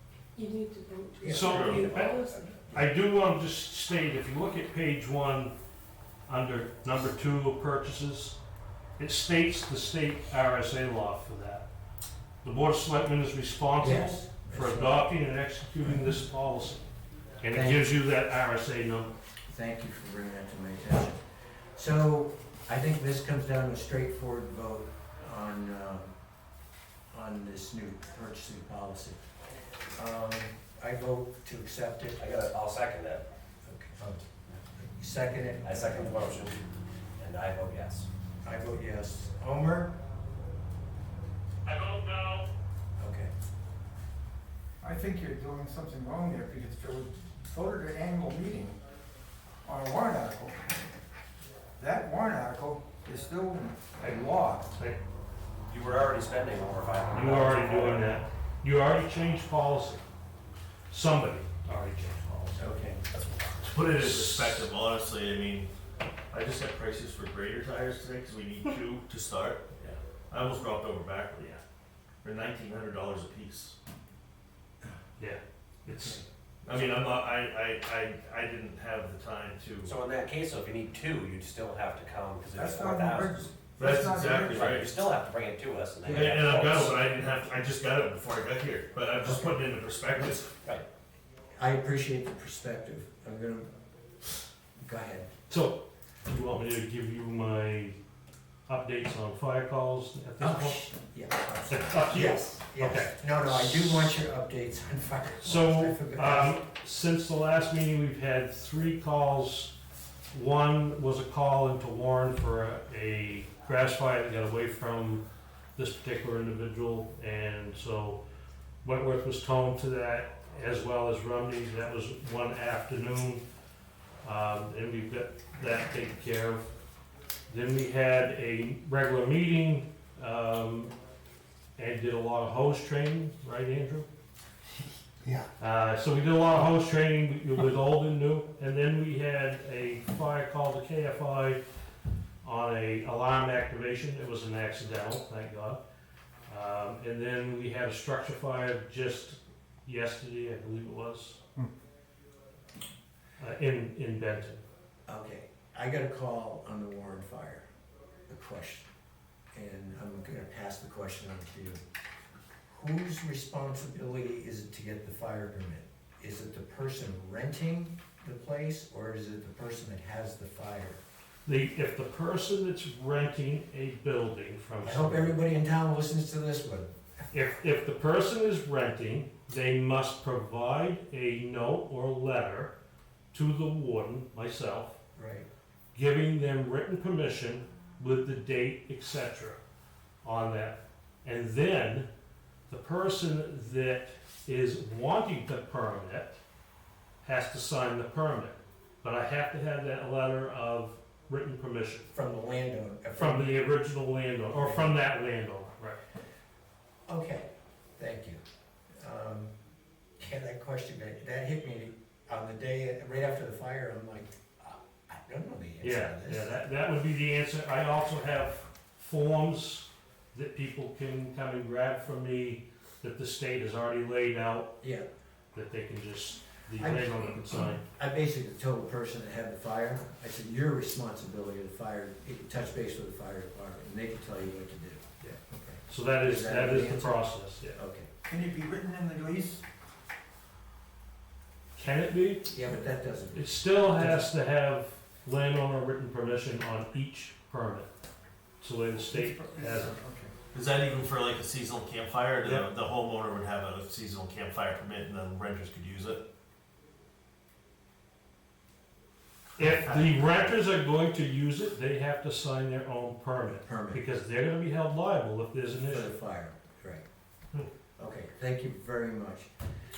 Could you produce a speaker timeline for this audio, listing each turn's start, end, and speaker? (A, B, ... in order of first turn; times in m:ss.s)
0:00.3-0:02.8 A
0:01.2-0:02.8 B
0:01.3-0:05.5 C
0:06.3-0:08.4 C
0:09.0-0:11.7 C
0:12.4-0:16.8 C
0:13.8-0:15.1 B
0:15.8-0:16.1 B
0:17.4-0:19.1 C
0:17.5-0:17.9 B
0:19.5-0:21.2 B
0:21.7-0:26.1 B
0:27.1-0:29.2 B
0:29.9-0:32.2 B
0:32.2-0:33.2 D
0:33.6-0:34.2 B
0:34.8-0:36.3 B
0:35.6-0:36.7 D
0:37.2-0:38.1 D
0:38.4-0:39.9 B
0:41.6-0:42.5 C
0:43.0-0:43.3 B
0:44.8-0:48.8 E
0:49.6-0:50.6 E
0:51.8-0:54.7 E
0:55.7-0:58.2 D
0:57.1-1:00.0 C
1:00.9-1:02.6 C
1:02.6-1:03.0 B
1:03.1-1:03.7 D
1:03.6-1:05.7 F
1:03.8-1:04.7 C
1:06.3-1:09.6 F
1:10.3-1:11.4 F
1:12.2-1:13.8 F
1:15.2-1:16.2 C
1:15.9-1:16.2 B
1:16.6-1:19.9 F
1:19.8-1:23.4 D
1:22.5-1:24.7 E
1:23.8-1:24.9 F
1:24.4-1:27.0 D
1:26.0-1:26.3 C
1:26.2-1:30.5 F
1:29.2-1:29.6 B
1:31.6-1:33.7 B
1:34.8-1:35.3 B
1:35.5-1:38.0 C
1:38.7-1:40.9 C
1:40.4-1:46.6 B
1:41.7-1:43.1 C
1:45.4-1:49.7 C
1:50.3-1:55.2 C
1:55.8-1:58.2 C
1:58.8-2:03.4 C
2:04.2-2:06.7 C
2:07.5-2:10.9 C
2:11.8-2:14.1 C
2:15.6-2:21.6 C
2:22.4-2:25.8 C
2:26.5-2:31.4 C
2:33.4-2:34.6 C
2:35.0-2:37.6 B
2:38.3-2:38.9 B
2:39.5-2:41.8 B
2:42.7-2:51.0 B
2:51.4-2:55.4 C
2:54.8-2:56.9 B
2:57.3-3:02.7 C
3:03.3-3:05.0 C
3:05.1-3:05.5 B
3:05.9-3:09.6 C
3:10.2-3:12.1 C
3:12.7-3:16.4 C
3:17.2-3:22.1 C
3:22.1-3:23.6 B
3:23.1-3:26.0 C
3:24.5-3:25.0 B
3:27.1-3:28.4 B
3:29.0-3:29.5 B
3:30.2-3:36.5 B
3:35.8-3:44.7 C
3:44.8-3:45.1 B
3:45.5-3:47.8 C
3:46.8-3:58.1 B
3:55.9-3:57.8 C
3:58.2-3:59.6 E
4:01.8-4:02.6 C
4:02.5-4:04.3 B
4:03.3-4:07.9 C
4:08.6-4:10.0 C
4:09.0-4:10.3 E
4:10.5-4:16.2 F
4:12.4-4:12.7 C
4:19.6-4:26.1 C
4:23.6-4:24.0 B
4:25.8-4:27.0 B
4:28.0-4:29.5 B